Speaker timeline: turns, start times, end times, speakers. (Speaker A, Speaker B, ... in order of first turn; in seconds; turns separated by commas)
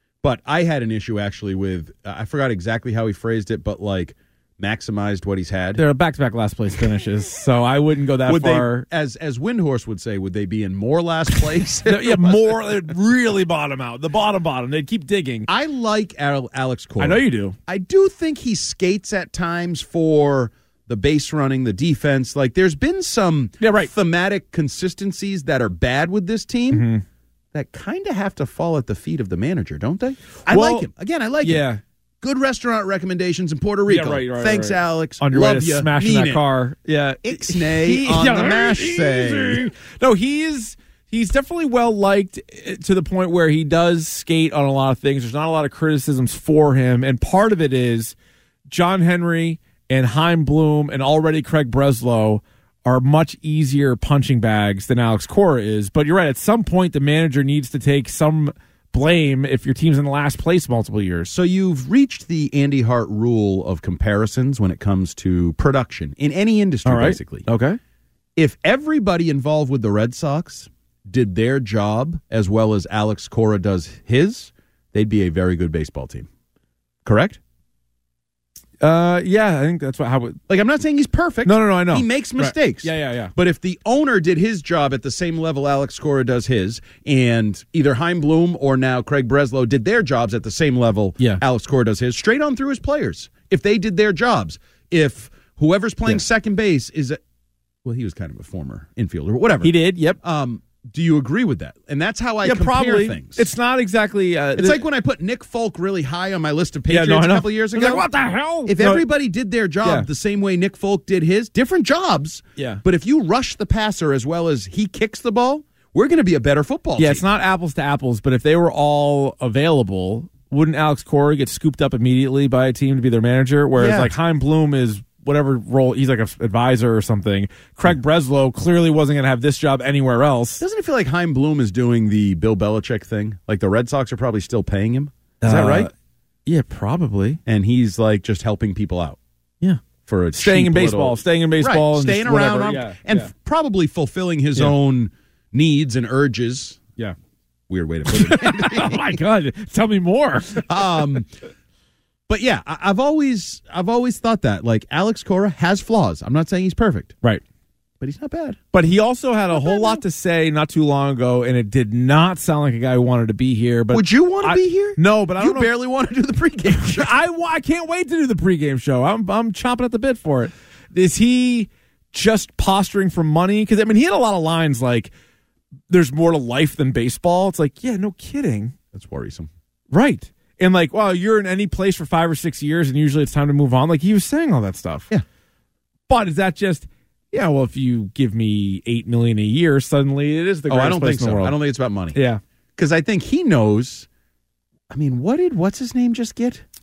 Speaker A: 0.2-5.8, Speaker B: 5.8-8.9, Speaker A: 8.2-12.4, Speaker B: 11.8-15.5, Speaker A: 15.5-26.9, Speaker B: 17.0-17.6, Speaker B: 23.6-23.9, Speaker B: 26.7-27.0, Speaker A: 27.5-31.7, Speaker B: 30.5-30.9, Speaker B: 31.4-31.8, Speaker A: 32.2-36.4, Speaker B: 33.9-48.2, Speaker A: 37.2-39.7, Speaker B: 48.7-61.3, Speaker A: 61.3-67.5, Speaker B: 66.8-67.8, Speaker A: 68.4-76.3, Speaker A: 77.0-77.4, Speaker B: 78.8-80.4, Speaker A: 80.5-97.2, Speaker B: 81.5-83.3, Speaker A: 97.8-103.5, Speaker B: 99.6-100.2, Speaker B: 102.4-104.8, Speaker A: 104.5-108.1, Speaker B: 106.9-109.1, Speaker A: 108.7-117.2, Speaker B: 112.6-112.8, Speaker B: 117.0-130.6, Speaker A: 123.8-124.1, Speaker A: 130.6-135.9, Speaker B: 135.4-135.9, Speaker B: 136.5-137.4, Speaker A: 137.5-139.2, Speaker A: 140.1-146.8, Speaker B: 140.3-143.3, Speaker A: 147.7-149.2, Speaker B: 148.1-150.9, Speaker A: 150.7-151.3, Speaker A: 152.3-157.2, Speaker A: 158.0-158.6, Speaker B: 158.7-165.7, Speaker A: 159.5-160.0, Speaker A: 163.9-167.1, Speaker B: 166.9-175.1, Speaker B: 175.9-178.7, Speaker A: 178.9-179.5, Speaker B: 179.9-185.1, Speaker B: 186.1-191.6, Speaker A: 190.7-192.2, Speaker B: 192.1-192.4, Speaker A: 192.8-194.1, Speaker A: 194.9-196.6